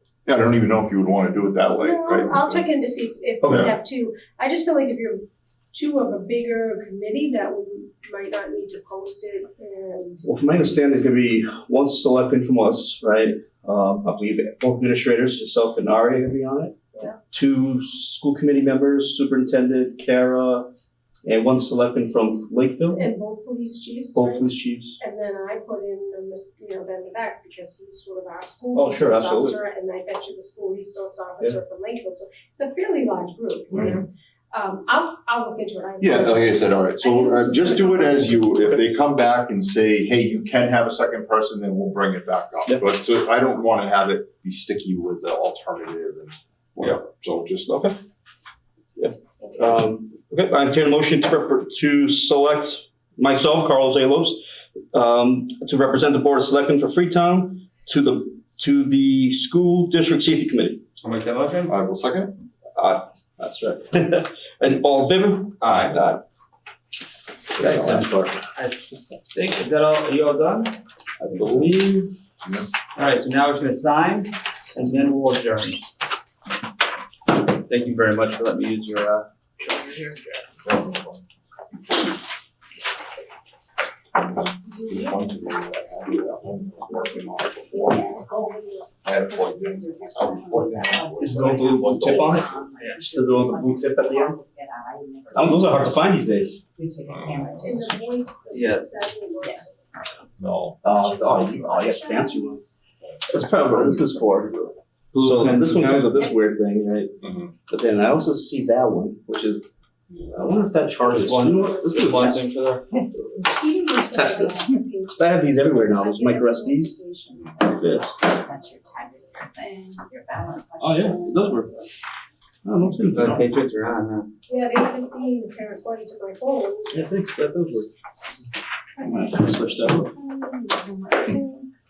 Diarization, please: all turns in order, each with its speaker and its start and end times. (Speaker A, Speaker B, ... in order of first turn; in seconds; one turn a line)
Speaker A: 0.3-2.7
Speaker B: 1.8-10.2
Speaker A: 3.4-3.7
Speaker C: 10.2-16.7
Speaker C: 17.3-20.7
Speaker C: 21.2-23.1
Speaker B: 22.9-38.8
Speaker C: 24.1-25.0
Speaker C: 28.7-29.6
Speaker A: 36.0-47.9
Speaker C: 49.0-54.4
Speaker C: 54.9-60.8
Speaker D: 61.0-61.7
Speaker A: 61.7-62.3
Speaker C: 62.8-66.2
Speaker D: 65.6-66.1
Speaker A: 65.6-66.1
Speaker C: 67.6-68.4
Speaker A: 67.6-68.0
Speaker D: 68.5-70.8
Speaker C: 71.2-71.8
Speaker D: 71.3-72.1
Speaker D: 73.0-75.8
Speaker D: 77.7-80.2
Speaker A: 80.6-81.2
Speaker A: 84.2-88.2
Speaker B: 84.7-85.2
Speaker B: 87.7-89.2
Speaker A: 89.0-92.5
Speaker E: 89.2-98.3
Speaker C: 91.2-92.5
Speaker C: 93.1-94.4
Speaker C: 95.3-96.6
Speaker A: 97.1-97.7
Speaker B: 97.6-100.2
Speaker D: 98.5-99.0
Speaker A: 100.4-100.8
Speaker C: 100.8-102.6
Speaker B: 101.0-102.4
Speaker C: 103.3-104.5
Speaker A: 103.3-104.8
Speaker D: 105.1-106.3
Speaker C: 105.2-107.2
Speaker A: 107.2-107.5
Speaker C: 107.7-109.8
Speaker C: 110.3-112.5
Speaker D: 111.0-112.9
Speaker B: 113.3-117.5
Speaker C: 114.0-117.0
Speaker E: 117.2-121.9
Speaker C: 117.6-118.2
Speaker C: 120.8-121.7
Speaker C: 122.6-123.5
Speaker D: 123.1-124.3
Speaker B: 124.5-127.0
Speaker C: 126.9-127.9
Speaker E: 129.0-131.7
Speaker C: 129.0-130.1